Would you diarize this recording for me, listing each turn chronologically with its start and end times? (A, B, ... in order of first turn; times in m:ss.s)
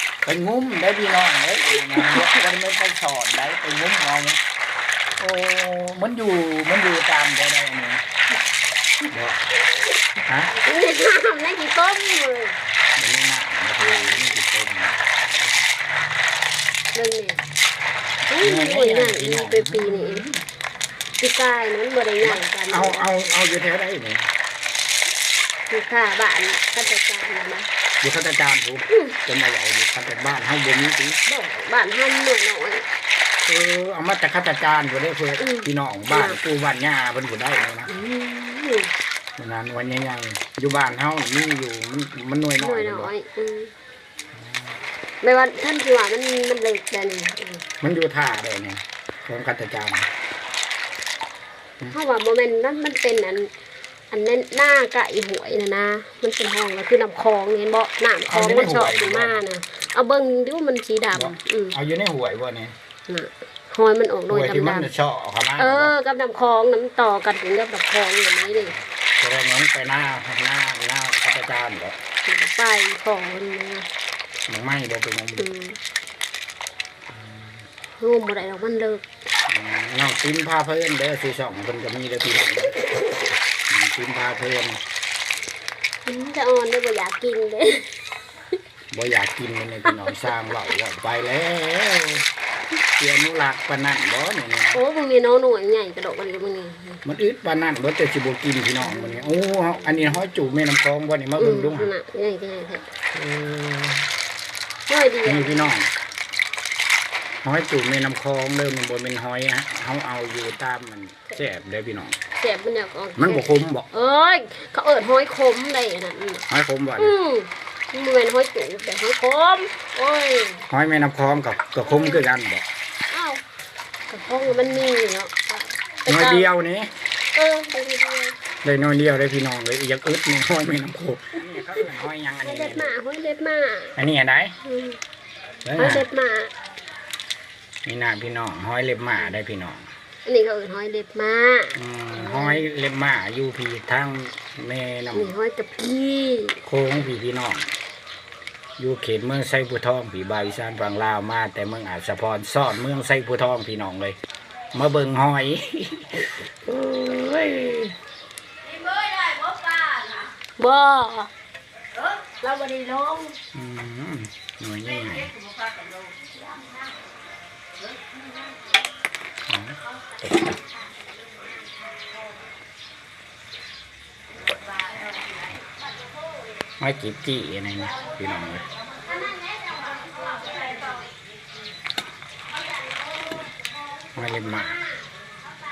0:00.2-0:04.4 A
0:02.0-0:02.3 B
0:05.2-0:08.0 A
0:09.1-0:09.4 A
0:10.3-0:10.5 A
0:10.6-0:12.6 B
0:13.0-0:15.0 A
0:13.8-0:14.2 B
0:16.9-0:17.4 B
0:18.3-0:20.3 B
0:18.4-0:20.4 A
0:21.2-0:23.1 B
0:22.2-0:24.3 A
0:25.7-0:27.7 B
0:28.0-0:31.2 A
0:31.3-0:32.9 B
0:33.4-0:37.9 A
0:35.4-0:36.4 B
0:37.9-0:38.9 B
0:39.4-0:43.1 A
0:42.6-0:43.7 B
0:45.2-0:47.6 B
0:47.8-0:50.1 A
0:51.9-0:53.5 B
0:54.1-1:01.8 B
0:58.3-0:59.4 A
1:01.1-1:02.7 A
1:03.1-1:04.9 B
1:04.3-1:05.9 A
1:05.6-1:08.8 B
1:08.5-1:12.0 A
1:12.3-1:13.9 B
1:14.5-1:15.5 A
1:15.4-1:15.8 B
1:18.0-1:19.0 B
1:19.5-1:22.8 A
1:23.7-1:24.8 A
1:26.1-1:27.9 B
1:28.9-1:32.3 A
1:33.0-1:34.8 A
1:34.7-1:37.0 B
1:37.0-1:41.9 A
1:38.8-1:39.3 B
1:41.4-1:42.9 B
1:43.2-1:44.0 A
1:44.9-1:45.7 B
1:45.2-1:45.9 A
1:47.4-1:52.2 A
1:52.4-1:56.4 B
1:53.2-1:53.9 A
1:56.5-1:57.2 A
1:57.0-2:00.7 B
2:00.7-2:02.6 A
2:01.8-2:02.2 B
2:03.1-2:03.4 B
2:04.1-2:06.5 B
2:06.1-2:06.9 A
2:07.3-2:08.4 B
2:08.6-2:12.9 A
2:12.4-2:14.0 B
2:14.0-2:14.6 A
2:14.6-2:15.0 B
2:15.6-2:16.0 A
2:15.8-2:16.5 B
2:17.8-2:19.9 A
2:20.2-2:22.6 B
2:21.8-2:25.3 A
2:25.1-2:26.6 B
2:26.6-2:27.7 A
2:28.8-2:34.2 A
2:34.7-2:37.9 A
2:38.9-2:41.3 B
2:42.0-2:43.4 B
2:43.5-2:45.4 A
2:49.5-2:50.5 A
2:56.8-2:58.6 A
2:59.1-3:00.9 B
3:02.7-3:03.3 B
3:04.2-3:04.8 A
3:04.4-3:05.0 B